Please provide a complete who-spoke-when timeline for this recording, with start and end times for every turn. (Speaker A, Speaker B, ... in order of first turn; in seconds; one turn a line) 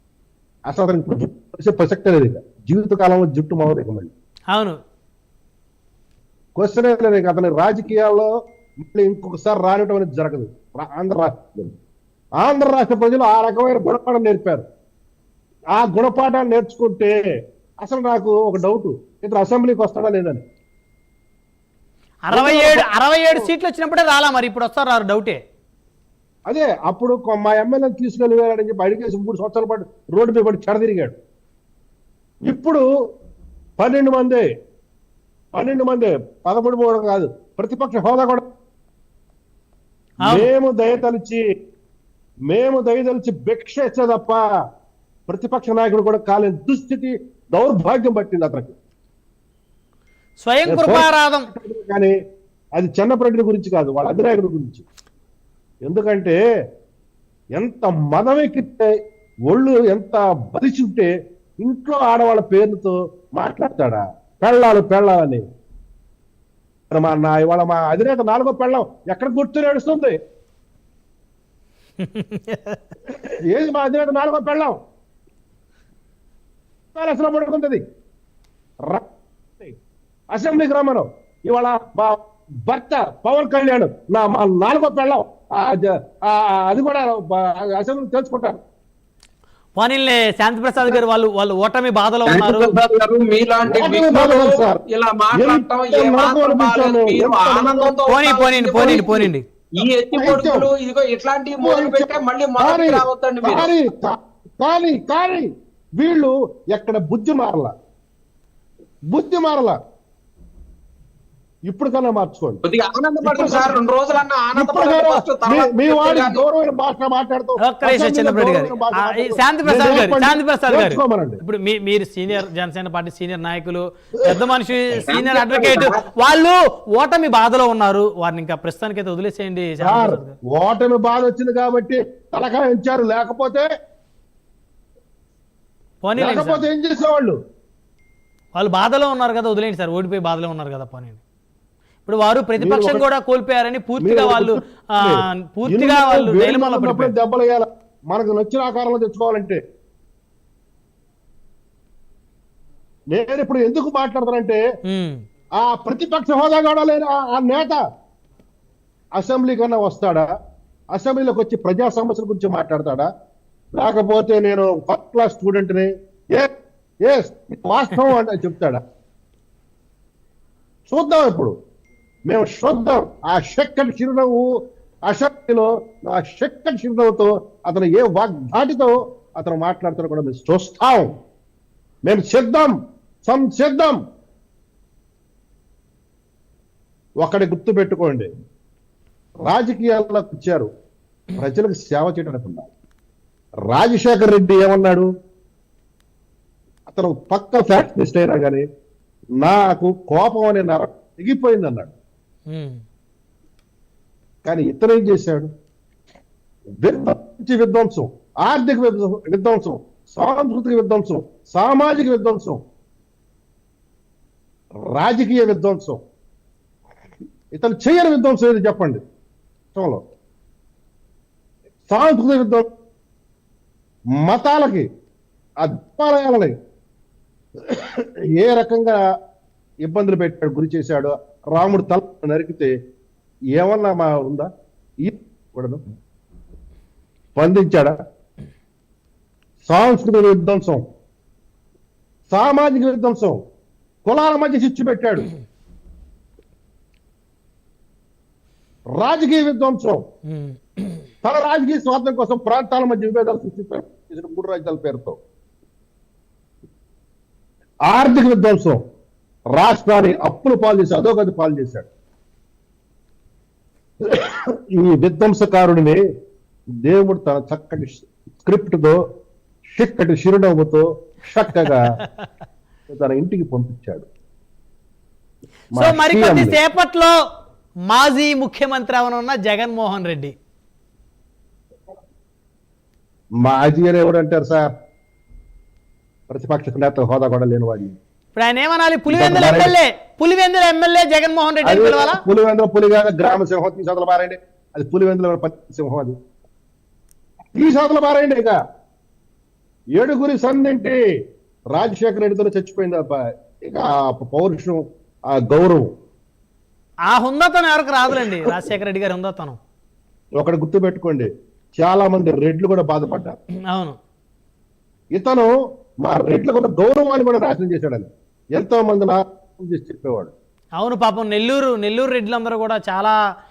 Speaker A: 0.7-4.1
Speaker B: 4.5-4.8
Speaker A: 6.6-8.3
Speaker A: 8.9-11.7
Speaker A: 12.4-14.6
Speaker A: 15.8-17.1
Speaker A: 17.8-20.4
Speaker B: 22.3-25.4
Speaker A: 22.3-23.5
Speaker A: 26.5-31.1
Speaker A: 32.5-32.8
Speaker A: 33.8-34.5
Speaker A: 35.5-38.5
Speaker B: 40.2-40.5
Speaker A: 40.2-41.4
Speaker A: 42.5-44.4
Speaker A: 45.3-48.8
Speaker B: 50.4-51.5
Speaker A: 50.7-52.1
Speaker A: 52.8-54.8
Speaker A: 55.9-56.4
Speaker A: 57.6-58.9
Speaker A: 59.5-61.1
Speaker A: 61.6-65.4
Speaker A: 66.9-70.2
Speaker B: 72.0-72.8
Speaker A: 73.5-74.8
Speaker A: 77.0-77.8
Speaker A: 80.3-88.6
Speaker B: 89.8-92.7
Speaker C: 92.3-103.8
Speaker A: 93.6-94.8
Speaker A: 95.3-98.0
Speaker B: 98.1-99.5
Speaker A: 100.1-100.7
Speaker A: 101.6-105.5
Speaker A: 106.0-107.7
Speaker A: 109.1-109.8
Speaker A: 111.7-112.6
Speaker C: 112.6-116.4
Speaker A: 113.2-113.7
Speaker A: 114.5-121.4
Speaker B: 117.6-130.3
Speaker C: 125.0-126.0
Speaker A: 129.8-133.7
Speaker B: 136.0-136.7
Speaker A: 136.2-137.3
Speaker B: 138.5-141.2
Speaker B: 142.1-147.1
Speaker A: 142.6-143.0
Speaker A: 144.0-149.6
Speaker A: 153.1-154.6
Speaker B: 154.9-155.2
Speaker A: 155.6-157.8
Speaker A: 159.2-160.3
Speaker A: 160.9-163.1
Speaker A: 163.8-166.5
Speaker A: 167.0-168.8
Speaker A: 170.9-171.5
Speaker A: 172.3-174.4
Speaker A: 175.1-181.1
Speaker A: 182.1-184.0
Speaker A: 187.2-188.3
Speaker A: 189.4-190.7
Speaker A: 191.3-192.7
Speaker A: 193.7-195.1
Speaker A: 196.9-198.6
Speaker A: 199.4-201.9
Speaker B: 202.5-202.8
Speaker A: 204.4-205.5
Speaker A: 206.8-212.6
Speaker A: 214.9-216.0
Speaker A: 217.5-219.0
Speaker A: 219.7-220.0
Speaker A: 221.9-222.6
Speaker A: 224.2-224.8
Speaker A: 225.6-226.5
Speaker A: 227.7-229.0
Speaker A: 229.8-232.7
Speaker A: 233.5-234.5
Speaker A: 235.0-235.8
Speaker A: 237.3-237.9
Speaker A: 239.6-240.8
Speaker A: 242.3-243.4
Speaker A: 244.0-245.2
Speaker A: 248.9-250.0
Speaker B: 250.3-250.9
Speaker A: 251.2-255.2
Speaker A: 257.9-258.8
Speaker A: 259.5-261.9
Speaker A: 264.0-266.0
Speaker A: 266.8-269.0
Speaker A: 269.8-271.9
Speaker A: 272.9-274.1
Speaker A: 275.8-276.6
Speaker B: 275.8-277.1
Speaker B: 277.9-280.3
Speaker A: 283.4-284.7
Speaker A: 286.3-288.0
Speaker B: 288.3-292.2
Speaker A: 289.1-289.8
Speaker A: 291.6-296.1
Speaker A: 297.6-298.6
Speaker A: 299.9-301.0
Speaker A: 301.8-304.8
Speaker A: 305.3-305.9
Speaker B: 307.1-309.6
Speaker A: 310.4-313.3
Speaker B: 313.7-313.9
Speaker A: 315.1-315.5
Speaker A: 316.1-320.3
Speaker B: 320.8-323.1